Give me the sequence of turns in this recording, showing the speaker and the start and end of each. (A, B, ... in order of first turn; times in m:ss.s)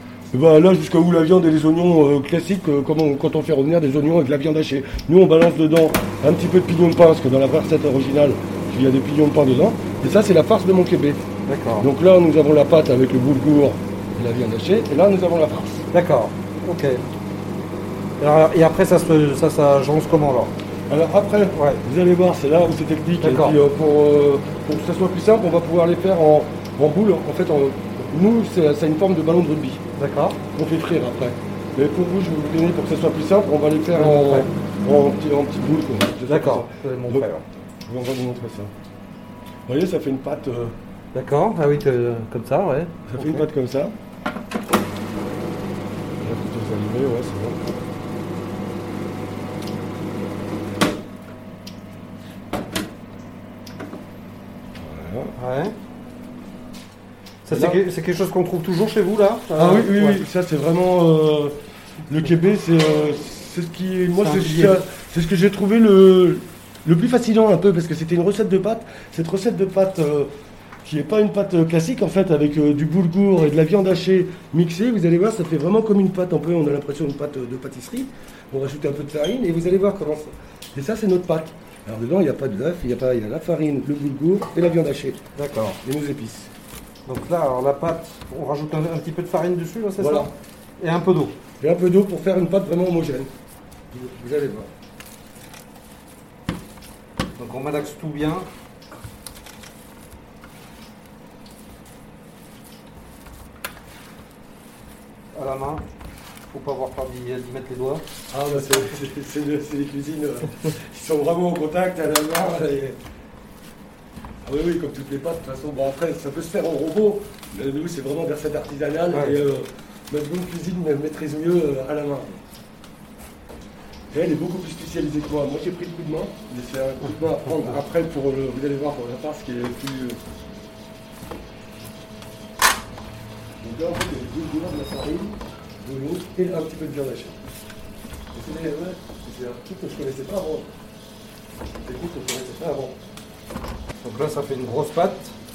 0:00.3-0:11.2 A
0:11.4-0:11.9 B
0:11.8-0:15.8 A
0:15.9-0:17.0 B
0:18.2-0:20.5 B
0:20.9-0:29.8 A
0:21.5-0:21.8 B
0:23.2-0:23.6 B
0:30.0-0:30.4 B
0:30.6-0:37.3 A
0:33.9-0:34.5 B
0:36.3-0:37.4 B
0:37.9-0:38.7 A
0:39.7-0:40.7 A
0:41.1-0:43.5 B
0:43.1-0:43.9 A
0:46.2-0:47.6 A
0:54.7-0:55.3 A
0:55.4-0:55.7 B
0:57.4-1:00.2 B
0:57.5-0:57.8 A
0:59.6-1:01.6 A
1:02.1-1:10.3 A
1:04.1-1:04.8 B
1:10.8-1:25.2 A
1:25.3-1:25.8 B
1:25.8-1:26.5 A
1:27.0-1:31.4 B
1:30.0-1:30.3 A
1:31.6-1:33.3 A
1:33.9-1:34.7 A
1:37.4-1:38.4 B
1:45.3-1:45.8 B
1:46.5-1:48.0 B
1:48.3-1:53.0 A
1:54.4-2:02.4 A
1:59.1-1:59.4 B
2:04.1-2:10.2 A
2:13.6-2:17.4 A
2:18.3-2:20.7 A
2:21.8-2:23.0 A
2:24.0-2:25.4 B